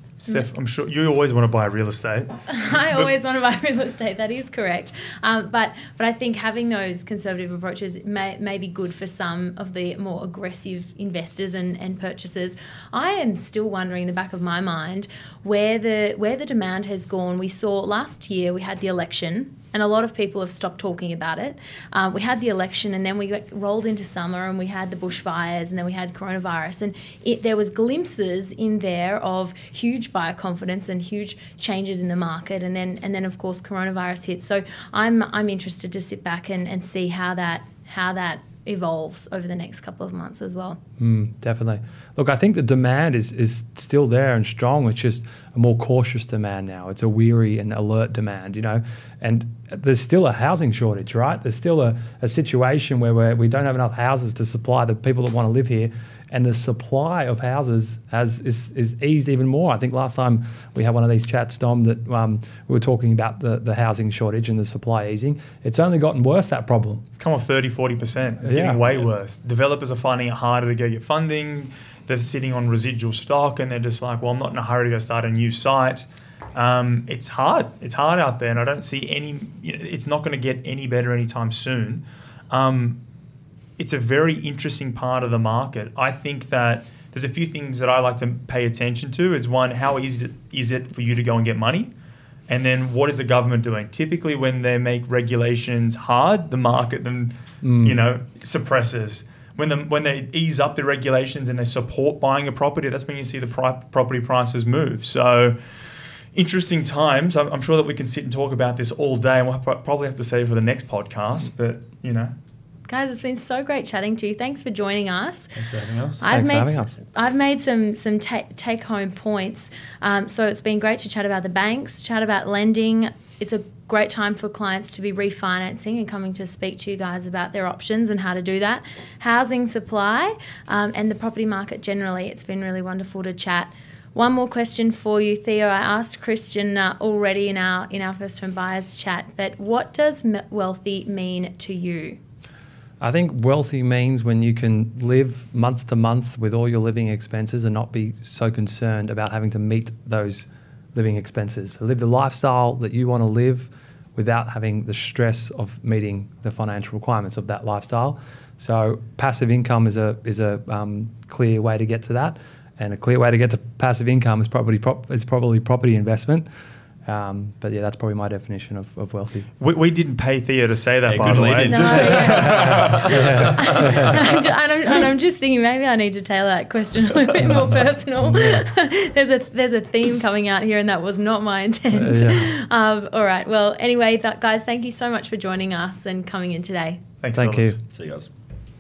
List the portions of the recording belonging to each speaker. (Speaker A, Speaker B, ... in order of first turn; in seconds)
Speaker A: 0.2-2.3, 67.2-83.0, 83.8-91.9, 92.5-105.8, 106.3-112.3, 169.6-172.8, 187.2-187.7
Speaker B: 2.5-40.8, 112.9-115.6, 116.2-142.2, 171.6-187.0
Speaker C: 41.0-67.0, 68.4-68.8, 97.6-98.0, 116.3-117.0, 143.0-166.5, 167.1-169.5, 172.3-174.2, 178.2-178.6, 181.9-182.5, 187.3-187.8
Speaker D: 115.5-116.2, 171.0-174.3, 187.9-188.3